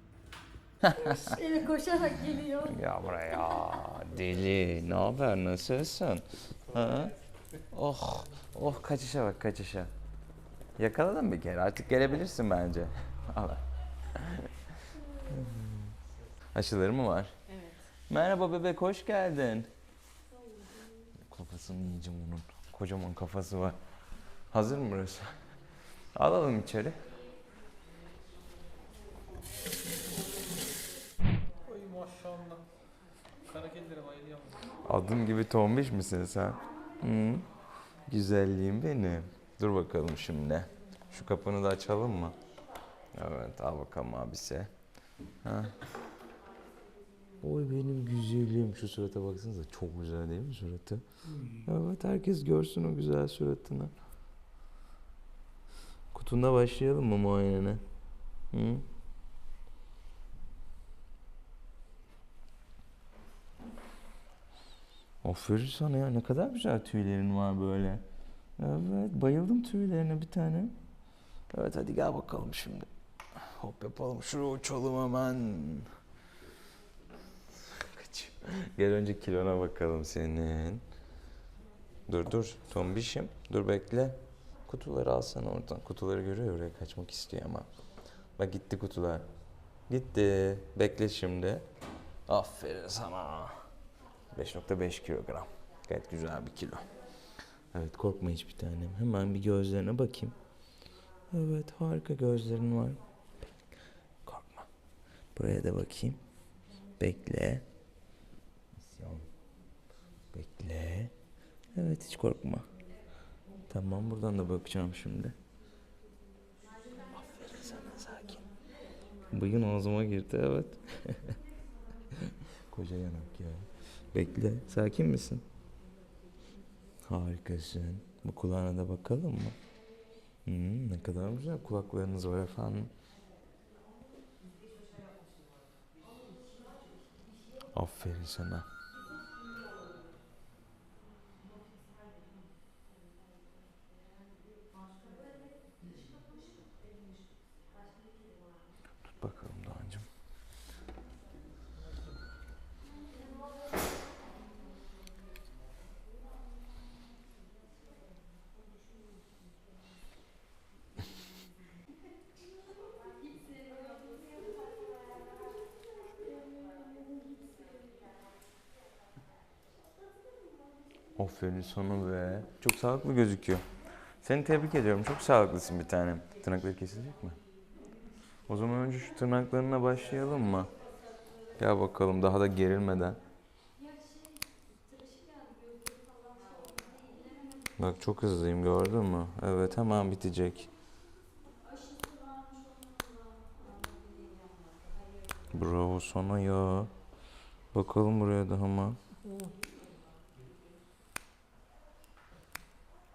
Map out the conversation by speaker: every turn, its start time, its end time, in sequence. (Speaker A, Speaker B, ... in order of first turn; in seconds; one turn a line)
Speaker A: 0.8-1.4
Speaker B: 0.9-2.7
Speaker A: 2.6-7.1
Speaker A: 7.7-9.9
Speaker A: 10.8-15.9
Speaker A: 16.5-17.4
Speaker B: 17.5-17.8
Speaker A: 18.1-19.7
Speaker A: 21.2-23.8
Speaker A: 24.5-25.4
Speaker A: 26.1-27.0
Speaker C: 31.6-32.6
Speaker C: 33.5-34.6
Speaker A: 34.8-37.5
Speaker A: 38.1-42.4
Speaker A: 43.1-44.7
Speaker A: 45.4-45.7
Speaker A: 47.4-53.9
Speaker A: 56.1-57.8
Speaker A: 58.5-58.9
Speaker A: 65.2-68.0
Speaker A: 68.6-70.7
Speaker A: 71.5-75.9
Speaker A: 77.5-80.8
Speaker A: 82.1-87.7
Speaker A: 88.4-89.3
Speaker A: 89.9-91.7
Speaker A: 92.3-93.6
Speaker A: 94.3-96.8
Speaker A: 97.7-100.3
Speaker A: 101.3-103.0
Speaker A: 104.2-104.7
Speaker A: 105.3-106.2
Speaker A: 107.0-107.6
Speaker A: 108.8-109.3
Speaker A: 110.3-111.1
Speaker A: 111.7-112.7
Speaker A: 113.7-115.3
Speaker A: 117.0-118.4
Speaker A: 119.3-121.4
Speaker A: 122.1-125.4
Speaker A: 127.0-129.6
Speaker A: 130.4-132.9
Speaker A: 137.7-138.7
Speaker A: 149.1-150.1
Speaker B: 166.4-167.3
Speaker A: 171.1-173.7
Speaker A: 174.2-177.4
Speaker A: 178.5-180.7
Speaker A: 181.6-183.2
Speaker B: 185.1-185.5
Speaker A: 187.8-190.7
Speaker A: 195.5-196.9
Speaker A: 197.7-199.0